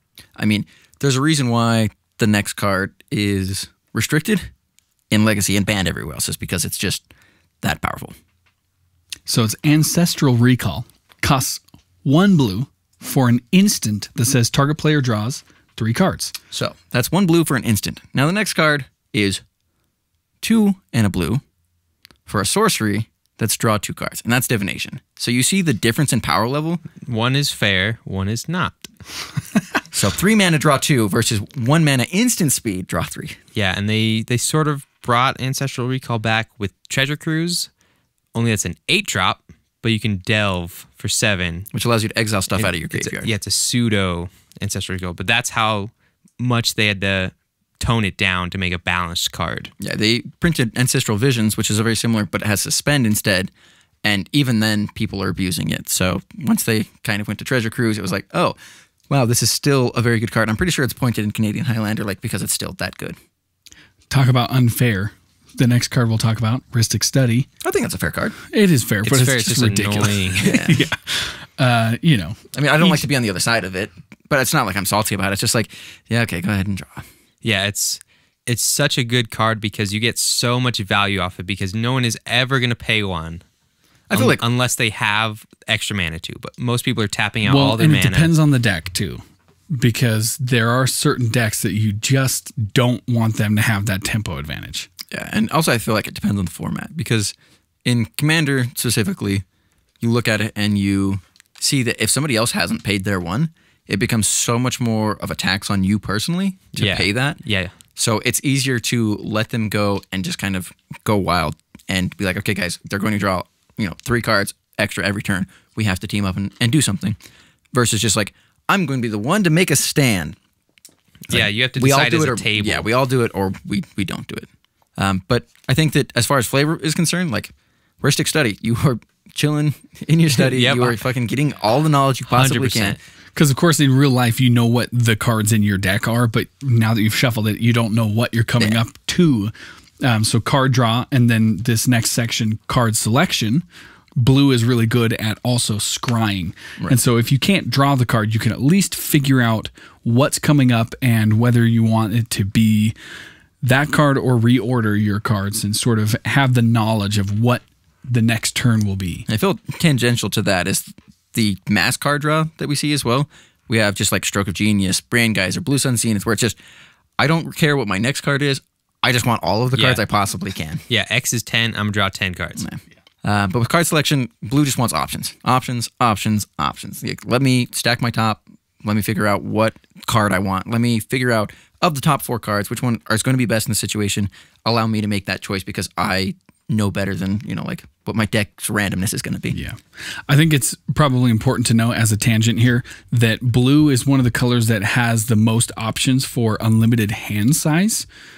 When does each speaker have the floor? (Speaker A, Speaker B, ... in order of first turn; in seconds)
Speaker A: 0.4-4.5, 5.1-7.0, 7.6-8.2, 16.5-19.4, 20.4-21.4, 22.3-26.8, 29.9-33.4, 41.7-43.3, 49.8-53.5, 54.0-58.5, 59.1-63.2, 67.6-68.3, 70.4-70.8, 72.5-77.1, 84.1-84.4, 95.1-99.4, 100.0-107.4, 108.0-117.2, 117.7-120.4, 121.3-133.0, 159.3-166.6, 167.2-170.8, 172.6-189.6
Speaker B: 9.2-16.3, 64.1-67.5, 68.5-73.1, 87.4-89.2, 89.7-94.9, 133.3-139.5, 140.0-143.6, 144.2-152.9, 153.6-159.3, 189.5-198.1
Speaker C: 27.0-28.9, 33.5-37.7, 38.3-41.7, 42.5-49.7, 69.0-70.6, 77.4-83.4, 84.1-88.3, 106.8-107.7, 121.3-122.8, 130.3-131.0, 132.3-133.0, 169.7-170.0, 170.9-172.7